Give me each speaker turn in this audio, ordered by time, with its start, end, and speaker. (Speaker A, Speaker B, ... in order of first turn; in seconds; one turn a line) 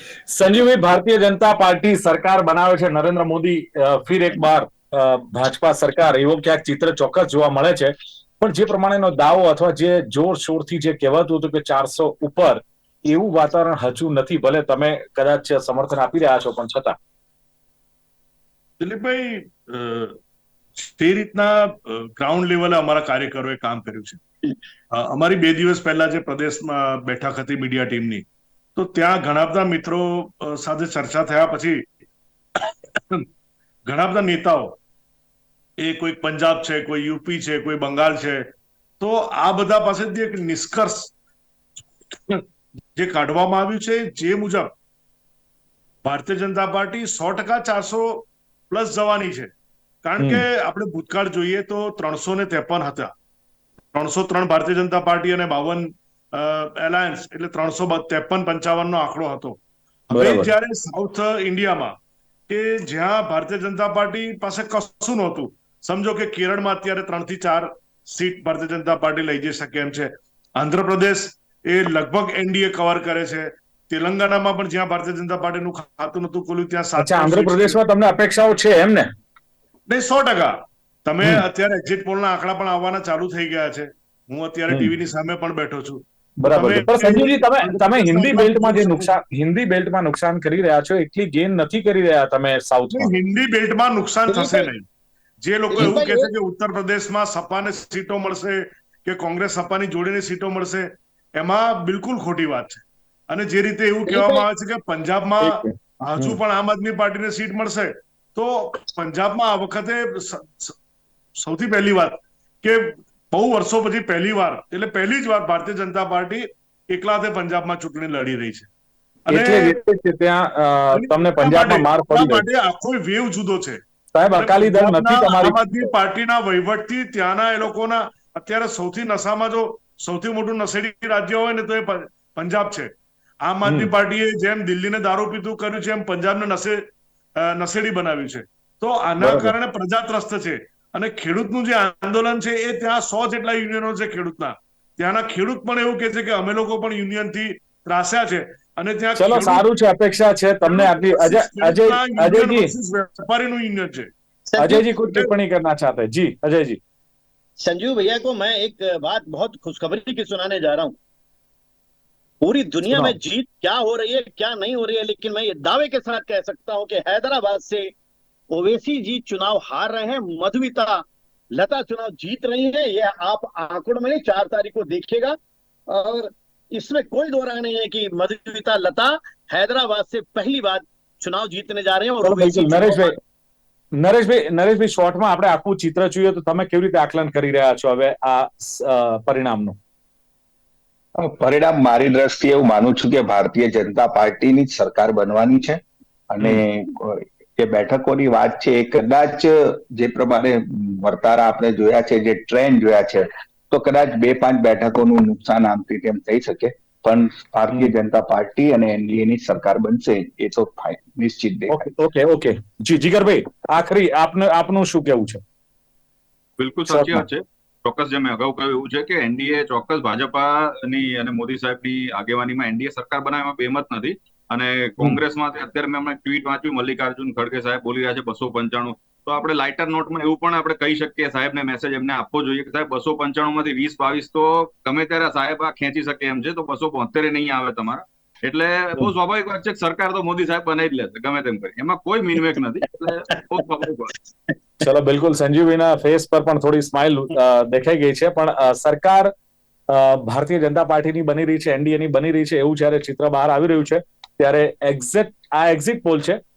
Speaker A: 0.3-16.9
Speaker B: 18.8-20.2
Speaker B: 20.8-24.2
Speaker B: 24.9-31.8
Speaker B: 32.6-33.2
Speaker B: 33.9-34.8
Speaker B: 35.8-38.5
Speaker B: 39.0-41.1
Speaker B: 42.1-42.4
Speaker B: 42.9-44.7
Speaker B: 46.0-49.5
Speaker B: 50.0-53.1
Speaker A: 50.2-50.4
Speaker B: 53.9-62.0
Speaker A: 60.1-60.5
Speaker B: 62.5-77.8
Speaker A: 77.0-79.1
Speaker B: 79.9-89.1
Speaker A: 86.4-93.1
Speaker B: 92.9-94.8
Speaker C: 94.3-94.7
Speaker B: 95.4-110.8
Speaker C: 95.7-96.3
Speaker C: 104.1-104.5
Speaker A: 105.4-106.4
Speaker B: 111.4-118.7
Speaker B: 119.3-119.8
Speaker A: 119.3-122.4
Speaker B: 120.9-123.8
Speaker A: 124.1-125.9
Speaker B: 124.3-132.9
Speaker B: 133.4-136.8
Speaker B: 137.4-149.7
Speaker A: 139.2-139.5
Speaker A: 149.2-152.7
Speaker B: 150.6-154.1
Speaker C: 154.5-155.0
Speaker A: 154.6-156.8
Speaker C: 157.6-160.9
Speaker C: 162.4-167.9
Speaker A: 162.9-163.1
Speaker C: 168.5-171.0
Speaker C: 171.5-175.3
Speaker C: 175.9-183.1
Speaker A: 182.2-183.1
Speaker A: 184.0-189.8
Speaker D: 191.2-211.8
Speaker A: 211.7-215.4
Speaker E: 216.6-244.1
Speaker A: 216.9-217.2
Speaker A: 244.8-249.3
Speaker A: 249.9-256.4